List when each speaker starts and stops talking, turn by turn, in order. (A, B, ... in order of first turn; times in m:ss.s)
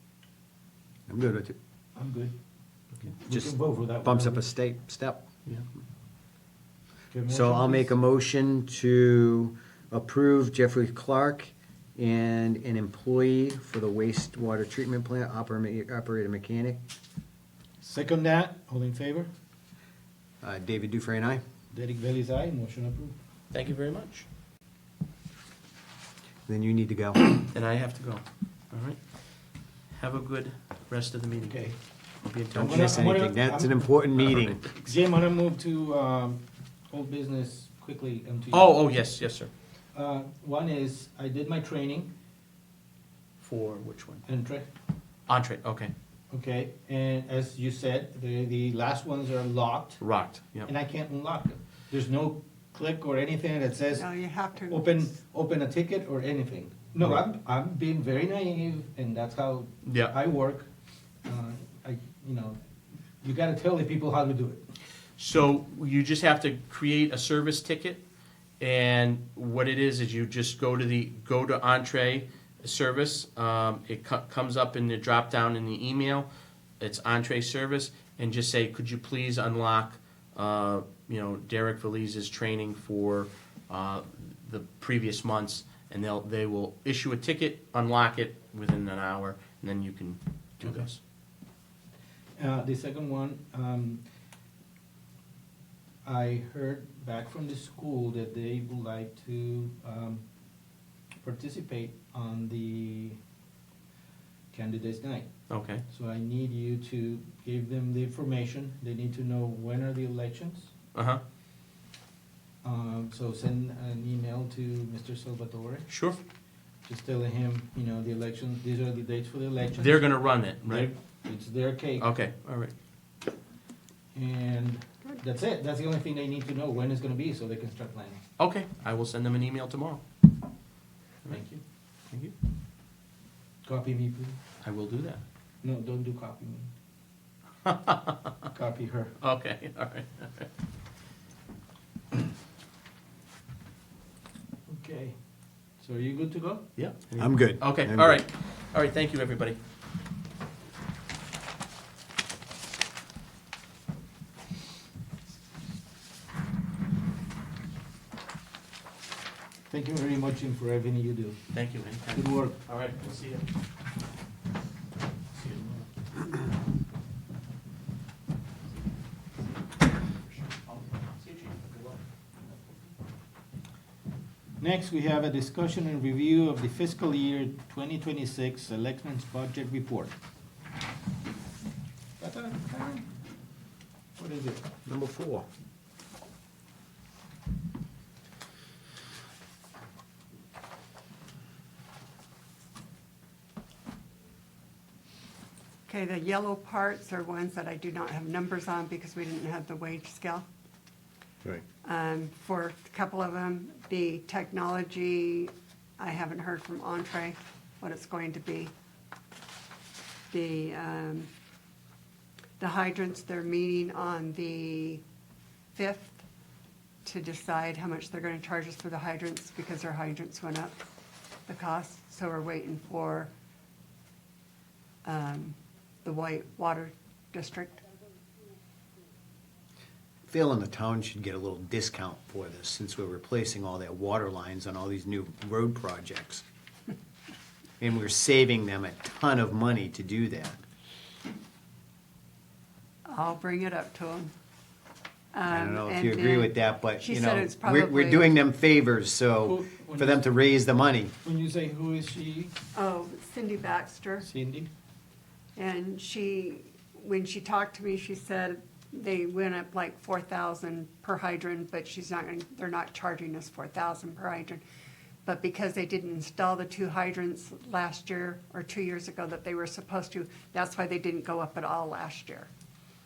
0:01.1-0:01.6 A
0:01.9-0:02.3 B
0:03.2-0:04.4 B
0:03.3-0:05.2 A
0:07.1-0:07.9 B
0:07.3-0:16.8 A
0:17.8-0:19.3 B
0:20.4-0:21.4 A
0:21.7-0:23.1 B
0:23.5-0:24.3 C
0:26.5-0:27.2 A
0:27.5-0:29.0 C
0:29.9-0:31.6 C
0:31.4-0:31.8 B
0:32.2-0:33.0 C
0:32.5-0:34.6 A
0:32.6-0:33.8 B
0:34.3-0:34.9 C
0:34.8-0:38.8 B
0:38.5-0:39.5 C
0:39.9-0:42.1 B
0:43.4-0:44.2 C
0:44.2-0:44.7 B
0:45.3-0:45.9 C
0:46.3-0:50.0 B
0:50.0-0:50.7 C
0:50.6-0:54.1 B
0:53.9-0:55.0 D
0:54.7-1:00.7 B
0:59.8-1:00.1 C
1:01.2-1:02.6 B
1:03.2-1:04.6 B
1:05.2-1:08.0 C
1:08.6-1:16.3 C
1:16.8-1:31.0 C
1:32.4-1:34.0 B
1:36.0-1:40.2 B
1:41.2-1:43.2 B
1:44.5-1:45.3 B
1:45.5-1:45.8 C
1:45.9-1:50.7 B
1:50.9-1:51.2 C
1:52.6-1:55.9 B
1:55.9-1:56.2 C
1:56.8-2:02.1 B
1:59.8-2:00.9 C
2:02.0-2:02.7 C
2:04.1-2:08.2 B
2:08.4-2:10.0 C
2:11.2-2:11.6 C
2:11.3-2:11.6 B
2:13.6-2:14.4 B
2:14.6-2:15.2 C
2:15.6-2:16.7 B
2:17.6-2:18.3 C
2:18.5-2:19.1 B
2:19.2-2:20.5 C
2:24.7-2:25.2 B
2:25.8-2:27.2 B
2:26.8-2:29.6 C
2:27.2-2:28.2 A
2:39.7-2:41.4 B
2:41.5-2:43.5 C
2:42.1-2:42.6 B
2:45.3-2:45.9 C
2:49.8-2:52.0 C
2:54.6-3:00.1 B
3:02.2-3:03.0 B
3:04.2-3:04.7 B
3:04.8-3:05.4 A
3:15.9-3:20.4 D
3:21.8-3:28.7 D
3:30.3-3:31.3 D
3:32.6-3:35.0 D
3:35.7-3:36.2 D
3:37.0-3:40.8 D
3:41.4-3:43.3 D
3:45.0-3:47.8 D
3:50.3-3:56.4 A
3:57.8-4:00.6 A
4:03.0-4:04.3 D
4:05.3-4:08.3 D
4:05.5-4:11.1 A
4:09.4-4:10.2 B
4:11.2-4:12.5 B
4:12.7-4:14.3 D
4:14.2-4:14.7 B
4:15.6-4:24.6 D
4:25.2-4:32.5 D